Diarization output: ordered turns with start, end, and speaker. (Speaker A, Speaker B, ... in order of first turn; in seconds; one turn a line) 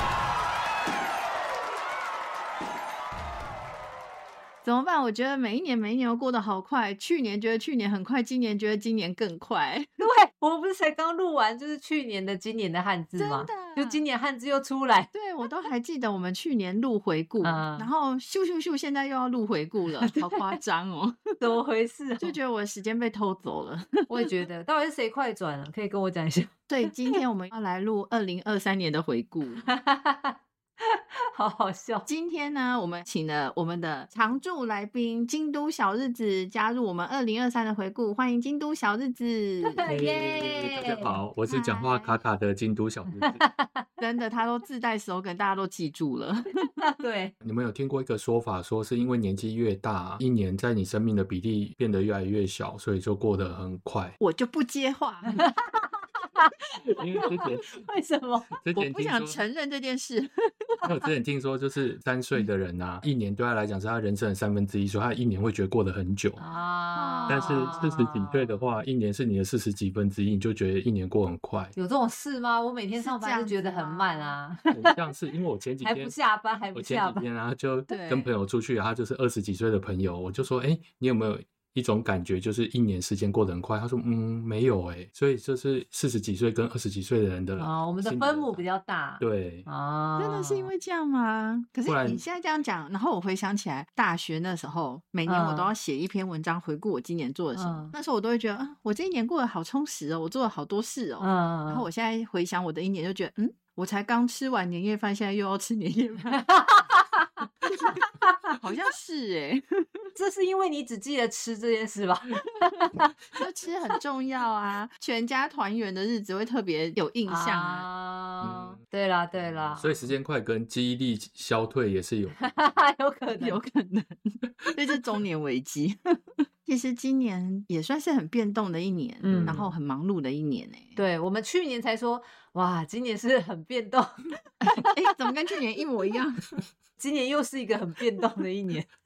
Speaker A: 4.6-9.9
Speaker B: 10.0-15.1
Speaker A: 13.2-14.0
Speaker A: 15.1-21.6
Speaker B: 17.4-17.9
Speaker B: 20.0-20.6
Speaker B: 21.4-22.4
Speaker A: 22.2-24.2
Speaker B: 24.1-26.5
Speaker A: 26.7-29.6
Speaker B: 29.6-32.1
Speaker A: 32.1-39.8
Speaker B: 39.6-41.2
Speaker C: 39.9-43.4
Speaker A: 41.5-42.1
Speaker B: 43.3-43.9
Speaker A: 44.0-46.7
Speaker B: 46.8-47.3
Speaker C: 47.4-54.1
Speaker A: 54.2-55.4
Speaker B: 55.3-58.5
Speaker C: 56.9-57.8
Speaker C: 58.6-59.4
Speaker A: 58.8-60.8
Speaker C: 60.8-66.4
Speaker B: 66.4-68.6
Speaker A: 67.0-67.8
Speaker C: 67.3-71.7
Speaker B: 71.8-75.0
Speaker A: 73.0-74.3
Speaker C: 74.7-76.2
Speaker B: 75.8-77.2
Speaker C: 76.8-88.6
Speaker A: 77.9-78.3
Speaker B: 87.6-90.7
Speaker C: 89.2-89.7
Speaker A: 90.2-106.4
Speaker C: 91.9-92.2
Speaker B: 95.3-95.7
Speaker B: 97.5-97.9
Speaker B: 101.2-101.9
Speaker B: 106.3-108.5
Speaker A: 107.7-110.1
Speaker B: 110.2-113.4
Speaker A: 113.4-117.8
Speaker B: 117.3-120.1
Speaker C: 118.4-118.8
Speaker C: 119.7-122.7
Speaker B: 122.4-123.6
Speaker A: 123.4-126.0
Speaker A: 126.7-131.0
Speaker B: 129.2-129.7
Speaker C: 129.2-129.6
Speaker B: 131.0-134.9
Speaker A: 134.6-136.5
Speaker B: 137.0-138.9